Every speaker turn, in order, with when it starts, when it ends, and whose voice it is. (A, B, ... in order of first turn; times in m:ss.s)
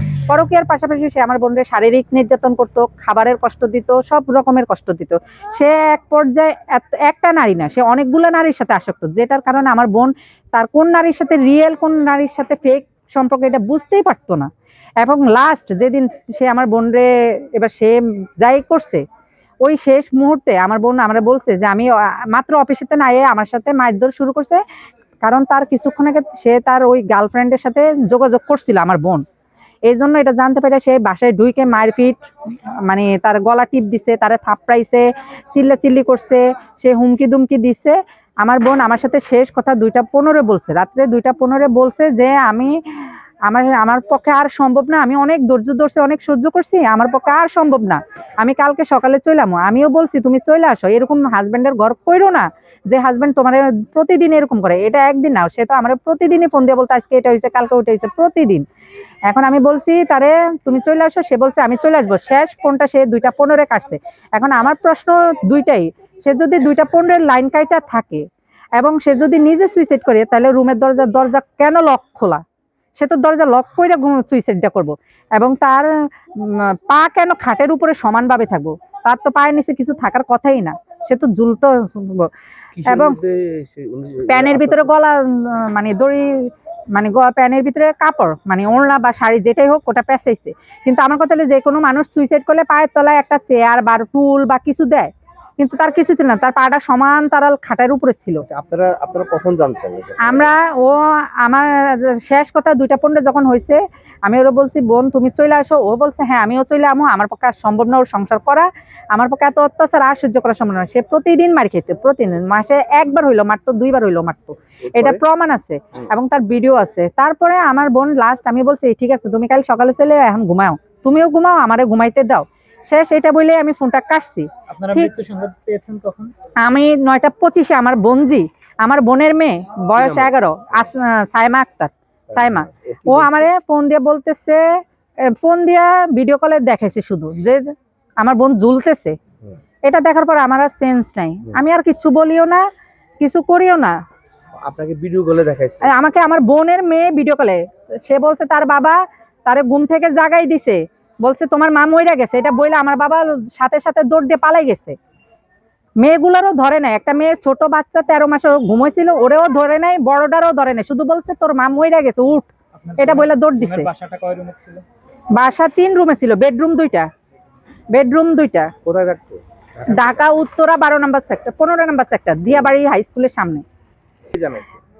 0:00.3-0:14.5 A
0:15.0-0:19.0 A
0:19.6-0:24.6 A
0:25.2-0:29.2 A
0:29.9-0:32.2 A
0:32.9-0:42.7 A
0:43.5-0:58.6 A
0:59.3-1:08.2 A
1:08.8-1:12.4 A
1:13.0-1:15.9 A
1:16.4-1:22.3 A
1:22.8-1:24.9 B
1:22.9-1:23.2 A
1:24.3-1:26.3 A
1:27.0-1:38.4 A
1:38.5-1:40.5 B
1:40.3-2:05.1 A
1:54.9-1:55.2 B
2:04.7-2:06.3 C
2:06.6-2:14.6 A
2:10.0-2:10.8 B
2:12.3-2:13.5 B
2:15.4-2:17.6 A
2:18.2-2:19.2 A
2:19.8-2:22.6 A
2:23.2-2:23.9 A
2:24.6-2:25.9 B
2:25.8-2:35.0 A
2:36.0-2:43.9 A
2:42.7-2:44.8 C
2:45.3-2:47.1 A
2:47.9-2:48.7 A
2:48.8-2:50.2 B
2:49.9-2:53.6 A
2:54.3-2:54.8 B